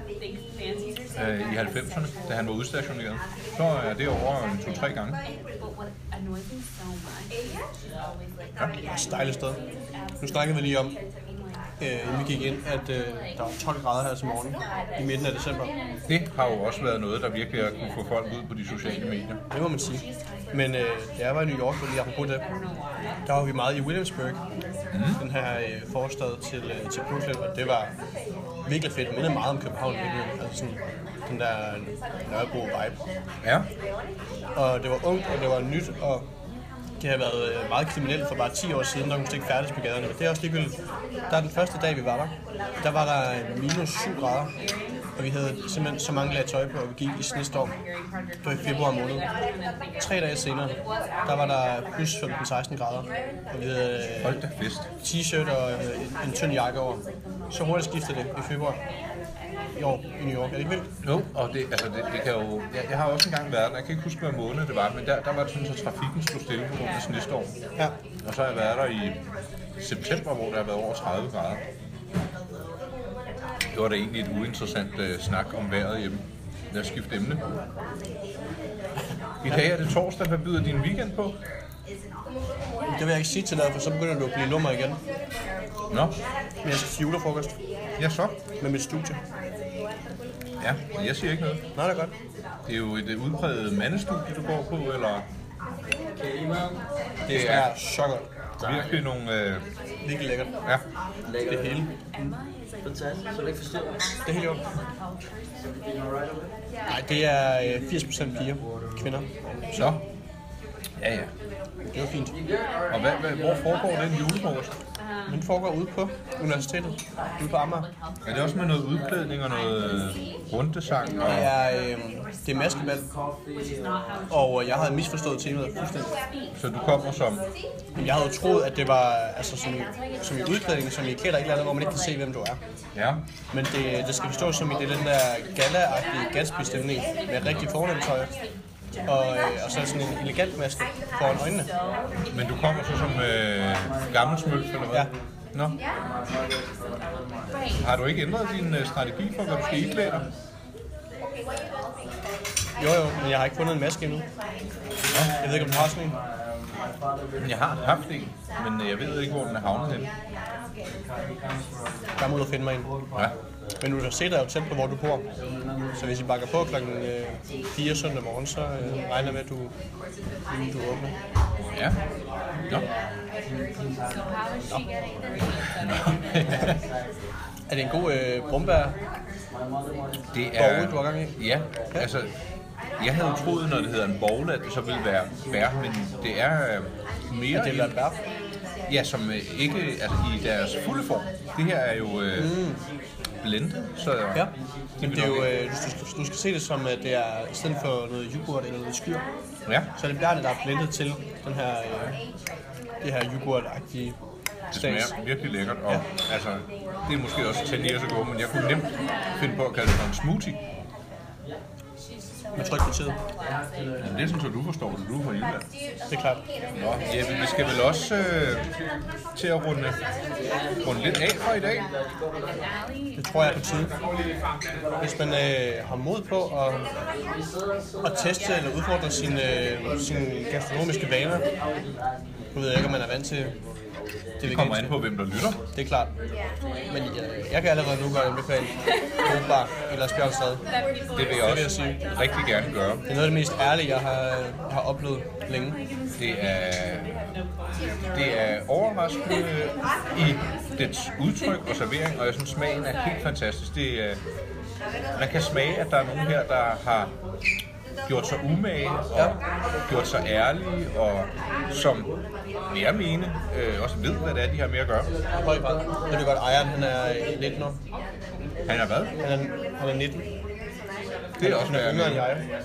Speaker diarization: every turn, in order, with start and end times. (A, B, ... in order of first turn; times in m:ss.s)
0:01.1-0:05.2 A
0:08.8-0:09.6 B
0:10.2-0:11.0 B
0:11.8-0:15.7 B
0:16.1-0:19.4 A
0:19.5-0:22.4 B
0:23.2-0:24.4 B
0:24.9-0:25.2 A
0:25.2-0:27.9 B
0:28.6-0:33.0 B
0:33.4-0:33.7 A
0:34.5-0:36.2 B
0:37.0-0:40.8 B
0:41.3-0:44.5 B
0:45.2-0:47.7 B
0:48.4-0:49.2 B
0:50.0-0:54.4 B
0:54.2-0:54.9 A
0:55.0-0:58.8 B
0:59.8-1:00.9 B
1:01.0-1:07.5 A
1:08.2-1:09.2 A
1:09.8-1:11.6 A
1:13.7-1:17.4 A
1:19.4-1:21.4 A
1:22.9-1:25.0 B
1:25.9-1:26.2 A
1:26.6-1:27.5 B
1:28.0-1:28.4 A
1:28.6-1:29.2 B
1:30.6-1:31.6 A
1:31.8-1:32.1 B
1:32.6-1:35.3 A
1:36.2-1:36.8 C
1:37.2-1:38.2 B
1:37.3-1:37.7 A
1:38.6-1:39.6 A
1:40.0-1:40.5 B
1:41.3-1:41.9 C
1:41.4-1:42.3 B
1:42.8-1:44.1 C
1:44.2-1:44.7 B
1:46.9-1:49.7 B
1:49.7-1:50.0 A
1:51.0-1:51.3 A
1:51.9-1:52.4 B
1:52.9-1:54.7 A
1:55.3-1:57.9 B
1:58.2-2:01.5 A
2:01.2-2:03.1 B
2:04.3-2:06.1 B
2:06.6-2:07.4 A
2:07.9-2:12.6 B
2:12.9-2:13.2 A
2:13.5-2:18.3 B
2:19.0-2:21.7 B
2:22.3-2:25.8 A
2:27.8-2:30.3 A
2:32.8-2:34.2 B
2:35.1-2:35.6 A
2:35.4-2:36.2 B
2:37.4-2:40.1 A
2:42.2-2:42.9 B
2:43.8-2:45.2 B
2:45.9-2:49.7 B
2:50.5-2:51.1 B
2:51.7-2:52.0 A
2:55.8-2:56.8 A
2:57.7-2:59.0 B
3:00.3-3:02.3 A
3:00.6-3:01.4 B
3:03.0-3:08.0 A
3:07.5-3:08.2 B
3:08.9-3:12.6 A
3:12.4-3:12.8 B
3:13.4-3:14.5 A
3:14.3-3:19.2 B
3:15.0-3:15.5 A
3:20.0-3:22.2 B
3:23.0-3:24.2 B
3:24.7-3:30.6 A
3:24.7-3:25.1 B
3:32.5-3:33.2 B
3:34.0-3:35.6 A
3:36.1-3:36.4 B
3:36.8-3:38.7 A
3:39.3-3:40.0 A
3:40.8-3:41.9 A
3:43.2-3:43.9 B
3:45.0-3:46.9 B
3:48.0-3:51.4 B
3:52.5-3:53.5 B
3:54.4-3:55.0 B
3:54.4-3:55.6 A
3:55.7-3:56.1 B
3:56.9-4:00.6 B
4:01.1-4:03.0 A
4:01.4-4:02.0 B
4:03.1-4:05.8 B
4:06.2-4:07.1 A
4:08.1-4:14.2 A
4:15.2-4:17.1 A
4:18.0-4:22.1 A
4:22.7-4:25.1 A
4:25.4-4:27.8 B
4:28.7-4:29.1 A
4:29.2-4:30.2 B
4:31.4-4:32.3 A
4:31.4-4:32.5 B